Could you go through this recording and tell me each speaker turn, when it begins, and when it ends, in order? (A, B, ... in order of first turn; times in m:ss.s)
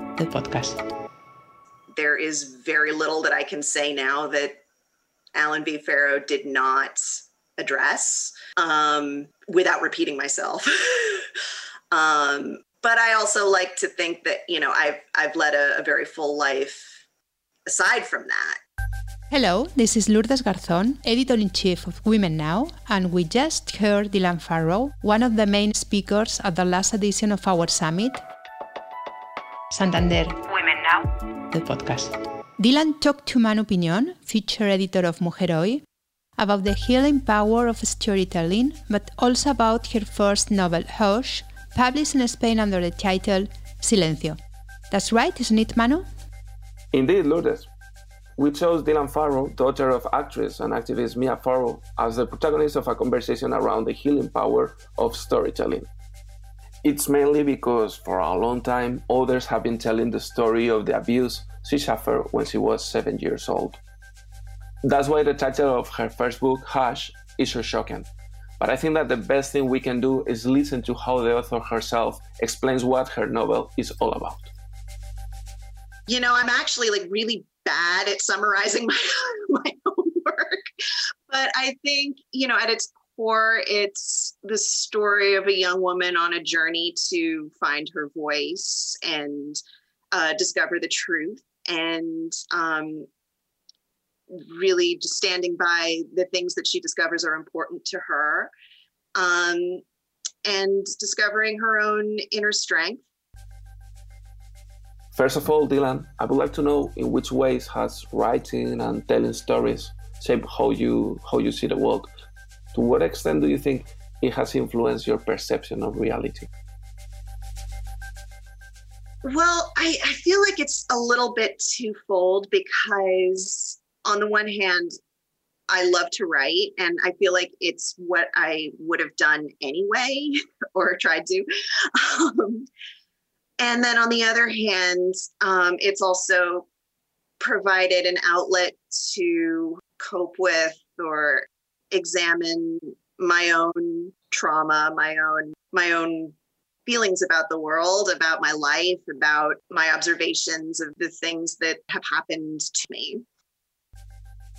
0:00.2-0:00.8 A
0:01.9-0:04.6 B
0:05.3-0:11.3 B
0:11.9-0:17.0 B
0:17.7-0:18.6 B
0:19.3-0:28.2 A
0:29.7-0:35.8 A
0:36.4-0:44.4 A
0:44.9-0:46.0 A
0:46.9-0:47.7 C
0:48.4-0:55.9 C
0:56.8-1:03.8 C
1:04.8-1:08.1 C
1:08.6-1:14.5 C
1:16.1-1:20.6 B
1:21.3-1:29.6 B
1:30.1-1:33.1 B
1:34.3-1:38.5 B
1:39.2-1:39.8 B
1:40.4-1:43.0 B
1:45.1-1:52.1 C
1:52.7-1:56.5 C
1:59.2-2:04.9 B
2:05.7-2:12.7 B
2:13.6-2:16.7 B
2:17.4-2:26.4 B
2:26.9-2:33.2 B